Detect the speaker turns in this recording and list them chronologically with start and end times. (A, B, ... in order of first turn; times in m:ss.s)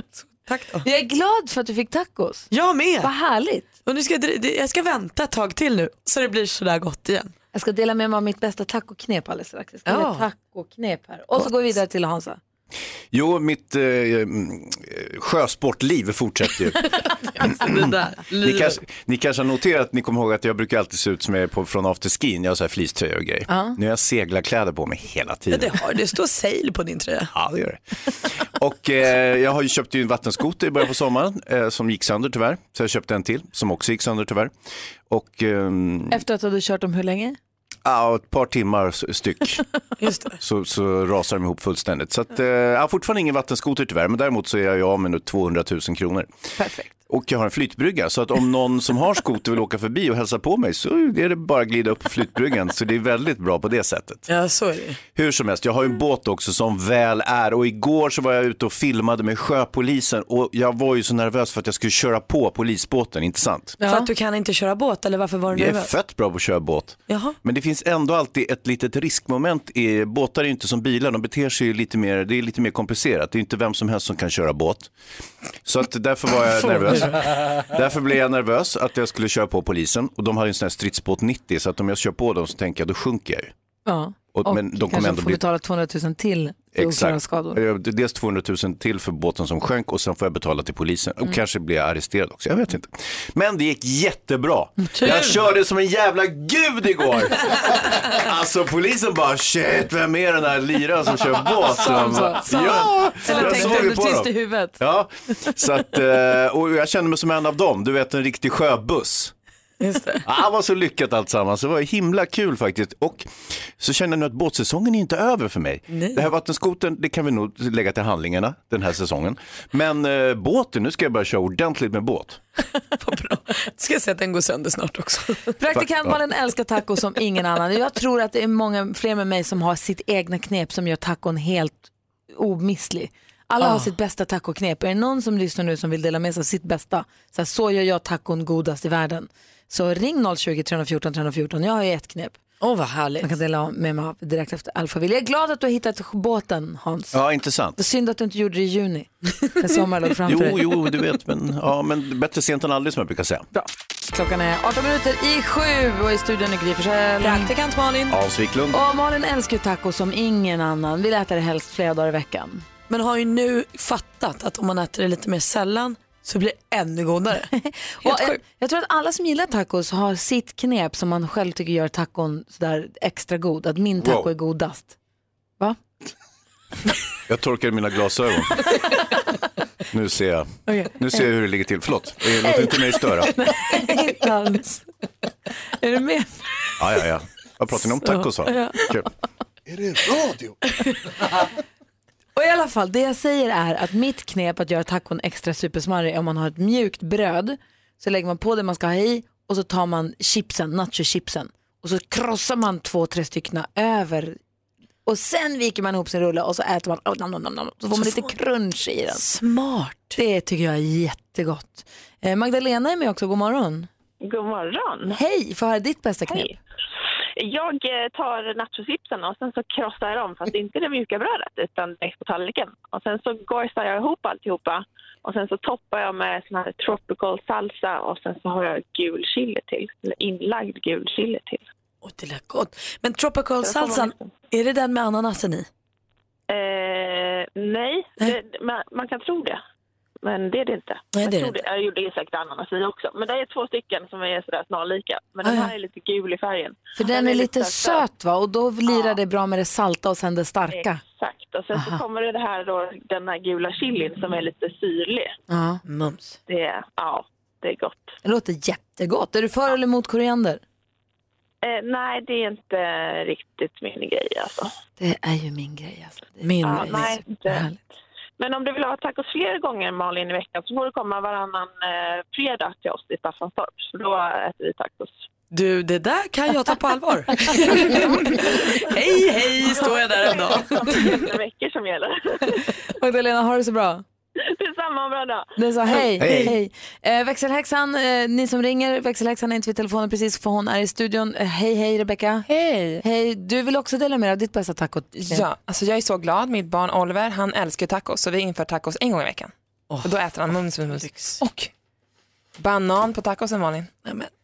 0:00.3-0:00.8 A
0:00.8-0:02.5 B
0:02.5-0:03.1 A
0:03.0-0:03.7 B
0:03.9-0:07.3 A
0:07.5-0:12.4 B
0:09.9-0:10.2 A
0:13.1-0:16.8 C
0:17.0-0:18.7 A
0:17.5-0:25.8 C
0:23.5-0:23.8 B
0:25.5-0:27.3 A
0:27.3-0:27.8 C
0:28.4-0:34.5 C
0:35.1-0:36.2 C
0:36.1-0:37.4 B
0:37.8-0:39.6 C
0:40.0-0:40.4 A
0:40.4-0:46.3 C
0:46.6-0:46.9 B
0:47.1-0:54.2 C
0:54.3-0:55.0 A
0:55.1-1:03.8 C
1:03.8-1:04.1 B
1:03.8-1:05.9 A
1:05.5-1:14.9 C
1:07.1-1:07.4 A
1:15.6-1:23.5 C
1:16.6-1:17.2 A
1:23.9-1:27.6 B
1:24.3-1:25.4 C
1:26.8-1:49.3 C
1:35.0-1:35.3 A
1:41.6-1:44.7 B
1:43.2-1:43.9 A
1:49.8-1:50.2 A
1:50.2-1:53.2 C
1:53.8-2:02.4 C
1:55.9-1:56.2 A
2:02.8-2:05.5 A
2:05.6-2:22.4 B
2:05.7-2:06.1 C
2:13.6-2:13.9 A
2:22.6-2:23.3 A
2:23.2-2:27.2 B
2:27.1-2:27.8 C
2:27.8-2:30.6 B
2:30.2-2:33.5 C
2:33.5-2:37.5 B
2:37.2-2:38.2 A
2:38.1-2:38.8 C
2:38.7-2:42.6 B
2:42.9-2:47.5 A
2:47.5-2:54.9 B
2:48.0-2:48.4 A
2:54.0-2:54.3 C
2:57.3-2:58.6 C
2:59.9-3:03.3 C
3:00.7-3:01.0 B
3:02.4-3:04.9 B
3:05.8-3:06.7 B
3:06.8-3:09.1 C
3:08.1-3:08.9 B
3:12.4-3:24.4 B
3:25.0-3:29.2 B
3:28.0-3:28.3 A
3:29.1-3:30.2 A
3:30.1-3:33.9 B
3:34.2-3:35.2 D
3:35.1-3:36.6 B
3:36.3-3:36.5 D
3:37.4-3:51.6 D
3:52.0-3:55.7 A
3:53.6-3:54.3 D
3:56.5-3:59.6 D
4:00.2-4:08.0 D
4:01.1-4:01.6 A
4:07.0-4:11.0 B
4:08.9-4:09.2 D
4:10.7-4:15.3 D
4:11.7-4:12.0 B
4:15.5-4:15.8 B
4:15.9-4:16.4 A
4:16.5-4:18.1 D
4:18.2-4:20.6 B
4:21.6-4:24.7 D
4:25.0-4:27.8 B
4:26.6-4:27.7 D
4:28.4-4:35.2 D
4:35.5-4:41.2 A
4:39.7-4:42.6 D
4:43.0-4:44.0 B
4:44.4-4:45.5 D
4:45.6-4:52.5 B
4:46.2-4:46.5 C
4:52.5-4:53.0 E
4:53.0-4:55.5 B
4:55.2-4:59.5 E
5:00.0-5:01.7 E
5:00.9-5:01.4 A
5:02.6-5:03.9 E
5:04.0-5:04.3 A